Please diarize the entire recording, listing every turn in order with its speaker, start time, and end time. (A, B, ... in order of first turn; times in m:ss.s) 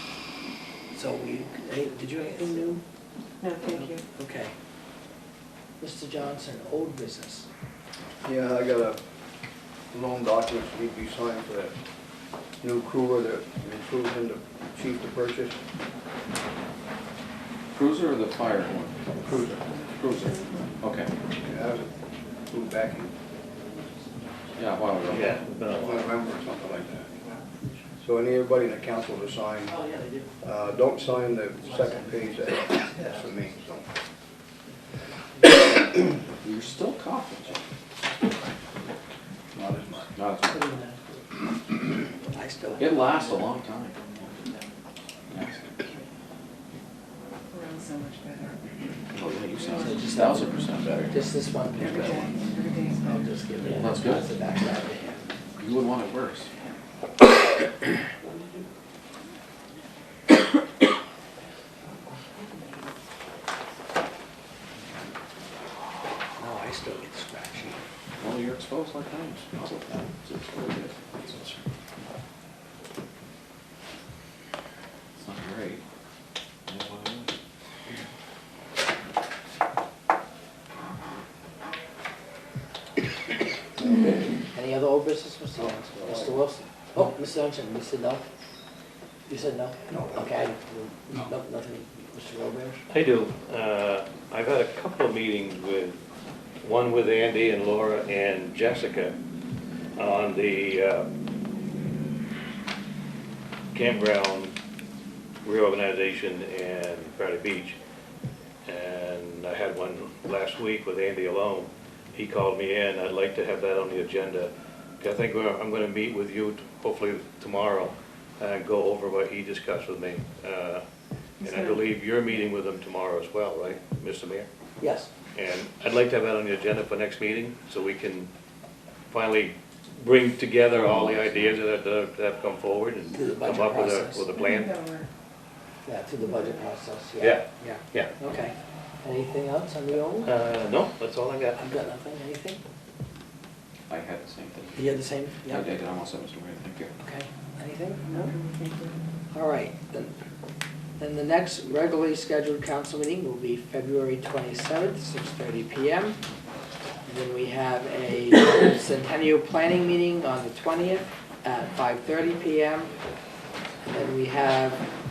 0:00.9-0:02.8 A
0:03.4-0:04.0 B
0:03.7-0:04.5 A
0:05.8-0:07.5 A
0:08.2-0:09.0 C
0:09.9-0:11.8 C
0:12.6-0:15.6 C
0:17.7-0:18.9 D
0:19.2-0:19.7 C
0:19.9-0:21.1 D
0:21.4-0:21.9 C
0:22.5-0:23.1 C
0:24.6-0:25.4 D
0:25.1-0:26.1 E
0:25.7-0:27.2 C
0:28.0-0:29.8 C
0:30.4-0:33.8 C
0:36.4-0:37.6 D
0:39.5-0:40.1 C
0:40.2-0:40.6 D
0:42.3-0:42.9 A
0:42.8-0:44.0 D
0:47.5-0:48.6 B
0:49.1-0:51.2 D
0:49.6-0:50.5 B
0:49.8-0:50.6 A
0:51.1-0:52.4 A
0:51.8-0:53.8 B
0:53.0-0:55.2 A
0:53.7-0:54.2 D
0:55.6-0:56.5 D
1:02.1-1:02.9 B
1:06.4-1:07.8 A
1:08.2-1:11.6 D
1:15.2-1:15.8 D
1:16.7-1:17.3 D
1:23.8-1:28.2 A
1:26.0-1:26.3 C
1:29.3-1:32.8 A
1:29.9-1:30.2 C
1:32.9-1:36.0 E
1:36.6-1:39.2 E
1:40.0-1:41.1 E
1:43.7-1:44.5 E
1:45.4-1:47.8 E
1:48.6-2:00.8 E
2:01.4-2:01.8 B
2:01.4-2:04.5 E
2:04.8-2:05.1 A
2:05.3-2:08.3 E
2:09.1-2:14.8 E
2:10.8-2:11.5 D
2:13.1-2:14.3 A
2:14.3-2:15.1 B
2:15.8-2:20.3 A
2:17.2-2:18.1 E
2:20.2-2:21.6 E
2:21.5-2:22.6 A
2:23.9-2:24.9 D
2:24.7-2:25.7 A
2:25.5-2:26.9 D
2:27.0-2:28.3 A
2:28.0-2:29.0 B
2:29.3-2:30.1 A
2:31.0-2:36.2 A
2:37.1-2:42.9 A
2:43.9-2:44.8 A